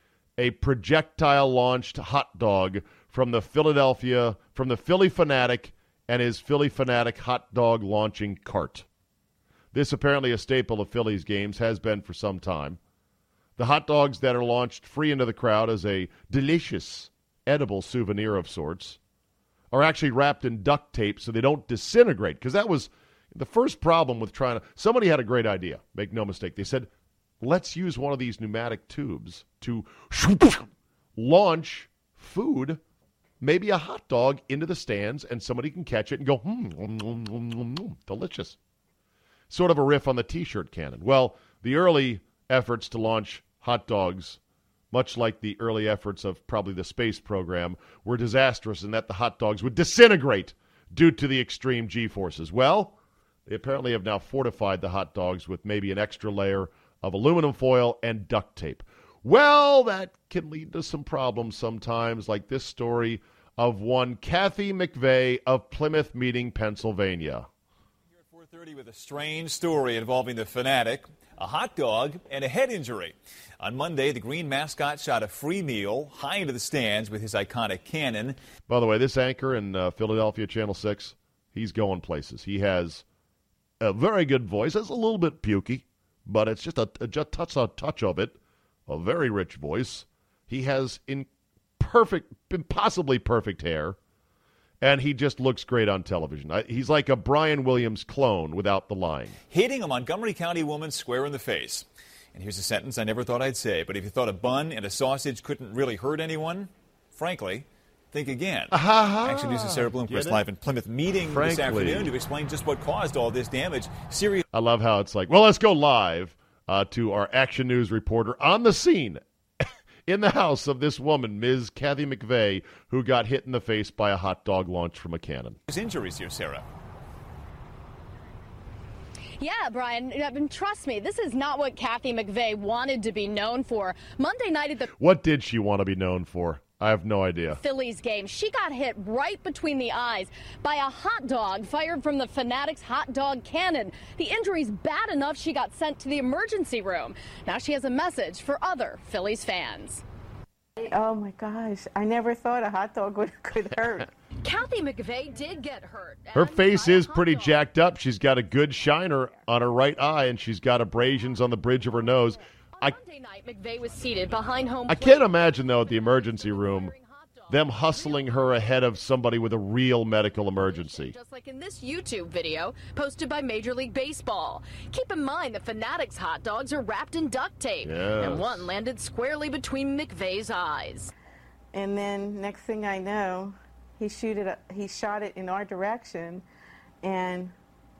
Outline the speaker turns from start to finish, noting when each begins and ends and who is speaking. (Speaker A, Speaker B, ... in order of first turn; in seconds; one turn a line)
Speaker A: 0.4-8.8
Speaker A: 9.7-12.8
Speaker A: 13.6-19.0
Speaker A: 19.7-26.9
Speaker A: 27.4-32.8
Speaker A: 33.4-38.6
Speaker A: 39.5-44.4
Speaker A: 44.9-67.5
Speaker B: 68.2-78.4
Speaker A: 78.7-83.0
Speaker A: 83.8-88.3
Speaker A: 88.9-94.0
Speaker A: 94.8-99.3
Speaker B: 99.5-114.4
Speaker A: 108.7-110.5
Speaker A: 111.3-112.1
Speaker A: 114.5-119.2
Speaker A: 120.1-125.6
Speaker B: 125.7-126.6
Speaker C: 129.4-134.9
Speaker A: 135.0-137.6
Speaker C: 137.6-150.0
Speaker D: 150.8-154.1
Speaker C: 154.4-157.6
Speaker A: 156.3-162.9
Speaker C: 162.8-165.2
Speaker A: 164.9-166.9
Speaker C: 166.0-168.5
Speaker A: 167.5-171.1
Speaker C: 170.6-181.1
Speaker A: 177.8-178.7
Speaker D: 181.7-186.4
Speaker D: 187.0-187.5